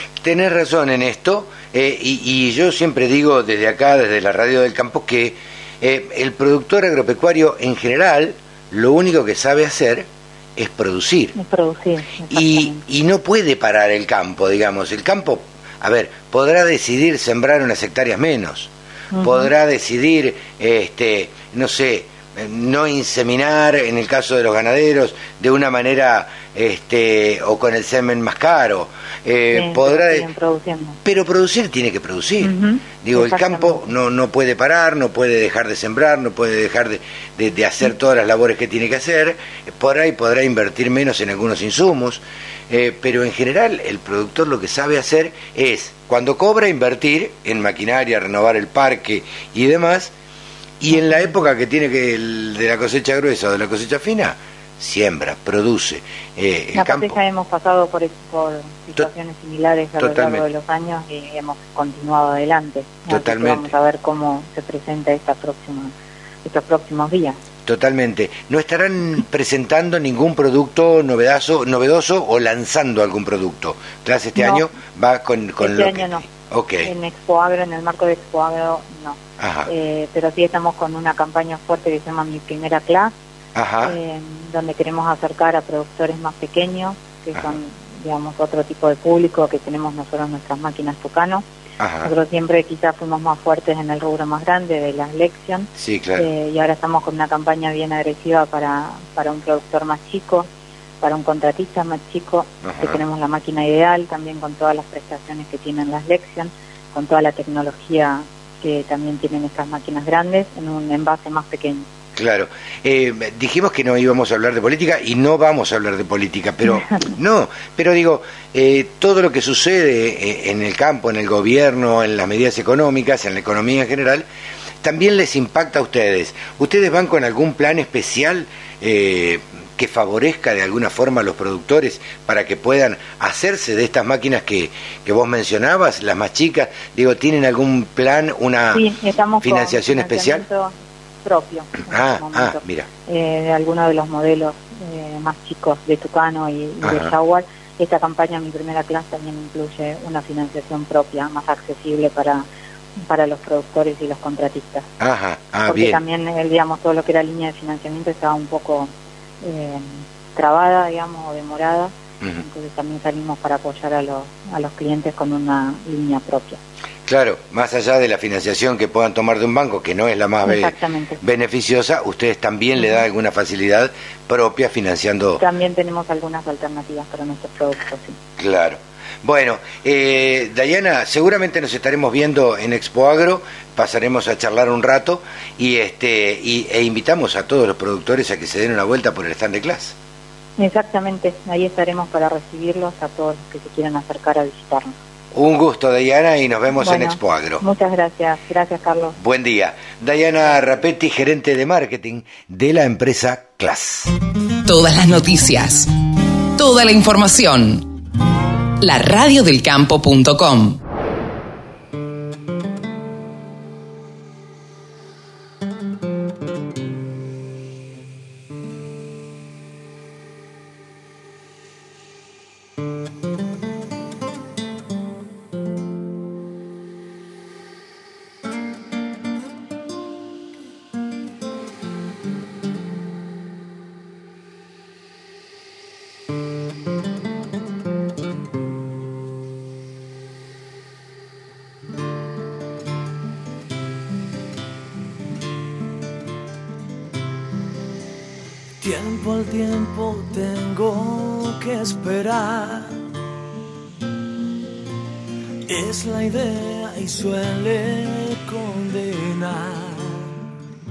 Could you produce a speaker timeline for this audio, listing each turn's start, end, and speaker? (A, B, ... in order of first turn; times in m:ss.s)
0:00.2-0:11.4 A
0:11.4-0:12.8 B
0:12.3-0:30.3 A
0:19.1-0:19.5 B
0:29.5-0:31.0 B
0:31.0-0:50.1 A
0:32.4-0:33.8 B
0:50.8-0:57.2 A
0:56.8-1:05.9 B
1:00.0-1:00.4 A
1:03.1-1:03.7 A
1:06.4-1:07.4 B
1:07.6-1:16.9 A
1:14.4-1:14.7 B
1:15.6-1:16.2 B
1:16.8-1:23.1 B
1:19.4-1:19.7 A
1:23.6-1:24.0 A
1:23.8-1:31.4 B
1:31.8-1:32.1 A
1:32.0-1:40.5 B
1:35.8-1:36.3 A
1:41.0-1:51.9 B
1:42.6-1:43.0 A
1:52.2-2:04.3 A
2:04.8-2:18.9 A
2:18.8-2:32.5 B
2:19.4-2:20.5 A
2:21.9-2:22.9 A
2:26.8-2:27.2 A
2:33.1-2:34.9 B
2:35.0-2:36.0 A
2:35.7-2:38.9 B
2:39.4-2:46.6 B
2:47.1-2:55.4 A
2:50.4-2:51.2 B
2:55.4-2:58.2 B
2:58.4-3:10.0 A
3:10.6-3:14.9 B
3:15.3-3:17.6 A
3:16.8-3:19.2 B
3:19.2-3:24.1 A
3:24.7-3:25.9 C
3:26.6-3:27.9 C
3:28.8-3:30.8 C
4:08.8-4:13.0 D
4:15.7-4:20.4 D